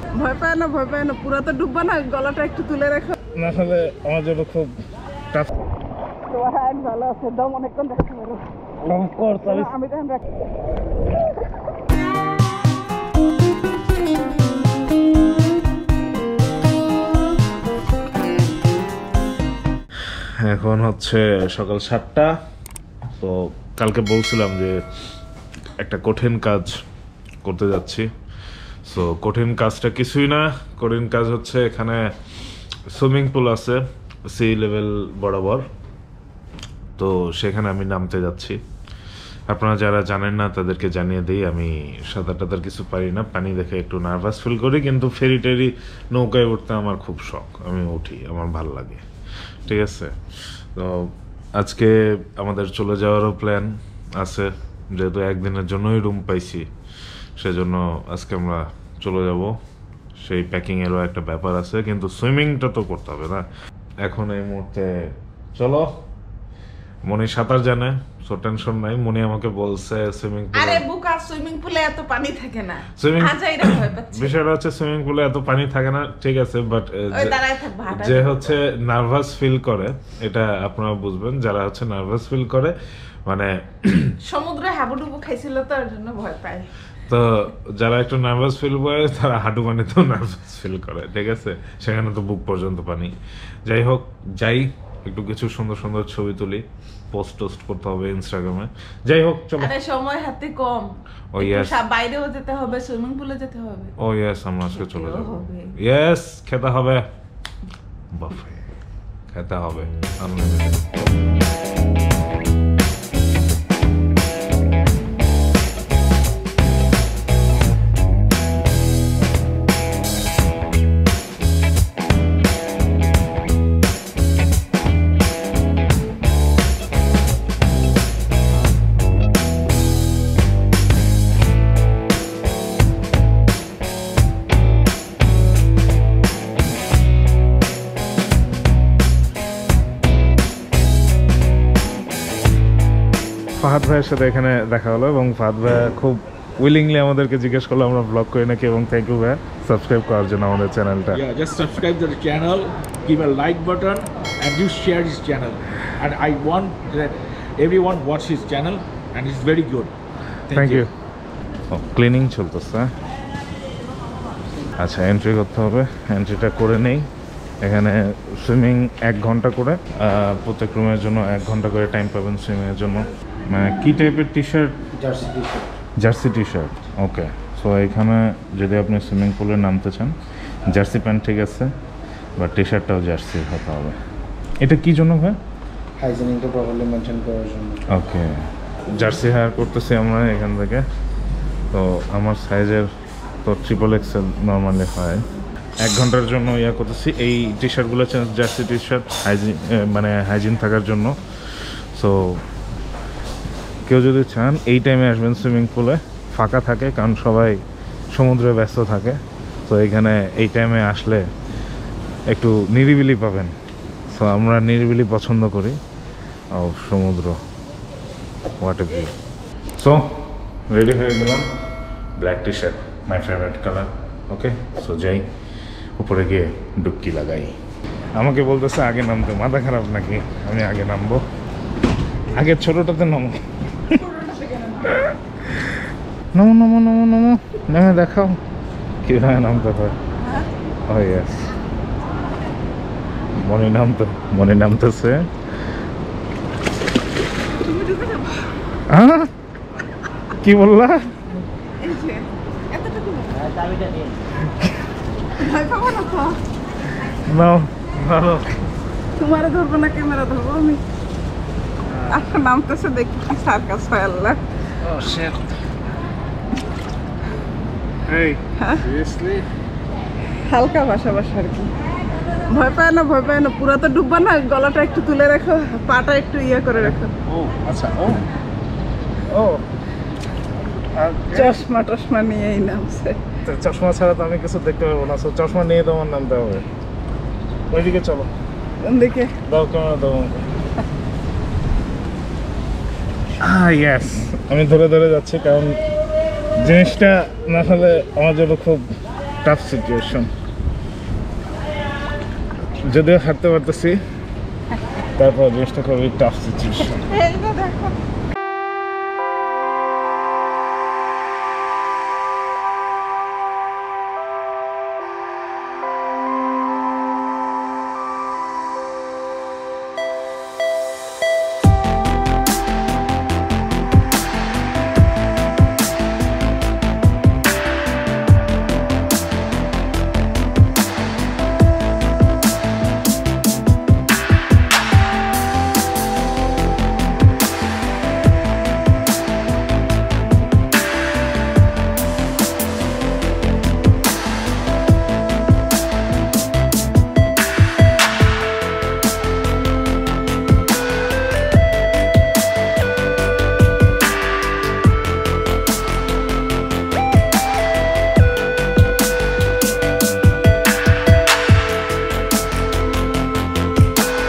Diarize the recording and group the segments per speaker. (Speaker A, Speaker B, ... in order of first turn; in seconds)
Speaker A: 0.1-3.2, 6.3-8.5, 9.2-10.2, 70.5-74.3, 77.1-78.5, 84.2-86.7, 99.6-104.0, 104.8-105.8, 234.2-234.7, 247.6-248.5, 251.8-254.1, 255.4-256.4, 259.2-260.8, 262.1-264.4, 268.6-268.8, 270.5-271.7, 272.5-277.1, 281.3-283.2, 288.8-289.4, 307.1-307.9
Speaker B: 3.3-5.5, 8.8-9.7, 20.4-22.4, 23.2-24.8, 25.8-26.8, 27.4-28.1, 28.9-32.1, 32.9-35.7, 37.0-38.6, 39.5-49.0, 49.6-56.7, 57.4-59.6, 60.2-63.5, 64.0-65.9, 67.0-70.9, 73.0-84.2, 87.1-99.8, 101.3-101.8, 104.0-107.1, 108.1-108.7, 109.3-111.0, 143.6-151.2, 160.5-160.9, 161.7-162.9, 164.8-167.1, 167.6-174.9, 176.0-180.2, 180.7-181.7, 182.4-184.0, 184.6-185.4, 187.9-190.9, 191.7-192.9, 193.4-195.2, 195.8-202.4, 203.8-207.6, 208.1-211.3, 212.3-213.6, 214.1-215.8, 216.5-217.4, 218.6-219.2, 219.8-221.5, 222.2-225.3, 226.0-227.6, 228.1-231.2, 232.3-234.1, 234.8-235.8, 236.3-238.4, 239.0-240.0, 240.9-241.5, 243.4-245.3, 248.9-249.3, 250.3-251.3, 254.5-254.7, 257.0-258.6, 264.8-265.5, 268.1-269.4, 277.3-278.3, 279.3-279.6, 280.9-281.6, 283.4-286.7, 287.7-288.3, 289.5-290.5, 293.4-295.9, 296.6-298.9, 299.4-300.3, 302.7-304.0, 305.2-307.1
Speaker C: 151.1-159.9, 160.5-160.9
Speaker D: 175.0-175.7, 186.0-187.8